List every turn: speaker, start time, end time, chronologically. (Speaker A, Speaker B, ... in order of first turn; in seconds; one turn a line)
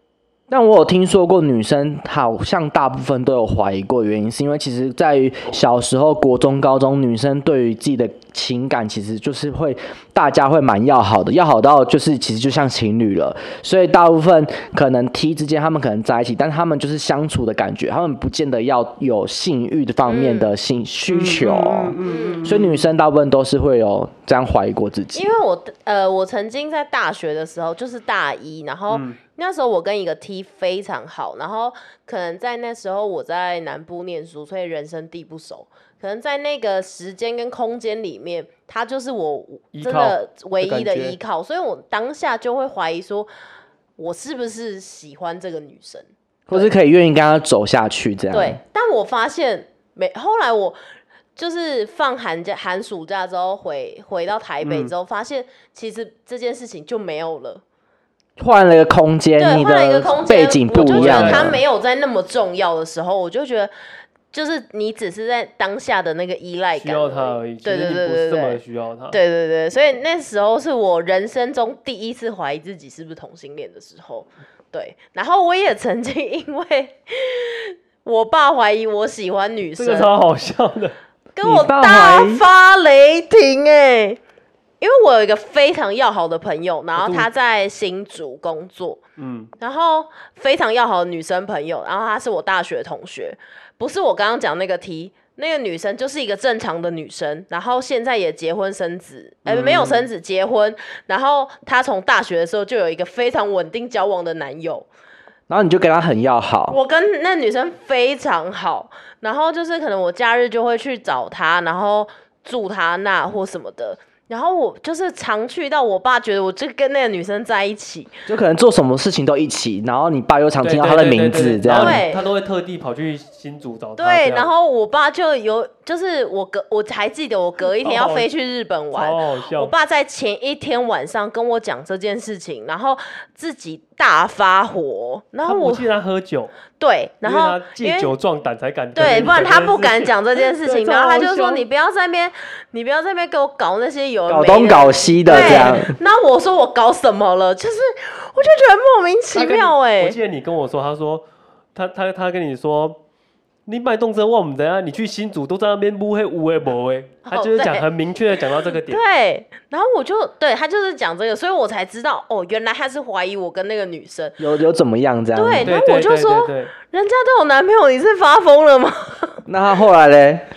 Speaker A: 0.5-25.3
Speaker B: 20.1-20.5
Speaker C: 21.1-22.9
Speaker B: 22.0-22.5
Speaker B: 25.1-43.3
Speaker C: 28.9-29.2
Speaker C: 39.7-41.2
Speaker B: 44.0-46.7
Speaker A: 46.5-48.6
Speaker B: 48.3-50.8
Speaker B: 51.4-57.6
Speaker C: 54.6-54.9
Speaker A: 58.4-61.6
Speaker B: 59.4-63.7
Speaker C: 60.8-61.6
Speaker B: 64.3-68.6
Speaker C: 66.8-69.2
Speaker B: 69.1-80.1
Speaker C: 79.8-80.9
Speaker B: 81.3-84.2
Speaker A: 81.4-82.4
Speaker B: 84.8-89.0
Speaker C: 87.0-87.3
Speaker C: 89.2-89.5
Speaker B: 89.6-104.9
Speaker C: 99.4-100.1
Speaker A: 105.5-106.8
Speaker B: 106.7-118.1
Speaker A: 118.3-122.0
Speaker C: 120.6-124.5
Speaker B: 121.7-122.2
Speaker B: 124.0-135.9
Speaker C: 127.8-128.3
Speaker C: 128.9-129.7
Speaker C: 135.4-136.5
Speaker B: 136.8-138.1
Speaker C: 137.2-141.6
Speaker B: 138.9-150.2
Speaker A: 144.3-145.9
Speaker C: 145.2-145.8
Speaker C: 149.3-153.0
Speaker C: 153.7-159.0
Speaker B: 157.2-157.8
Speaker B: 158.8-164.4
Speaker A: 164.4-165.7
Speaker B: 165.3-169.4
Speaker C: 165.6-166.7
Speaker A: 169.4-170.5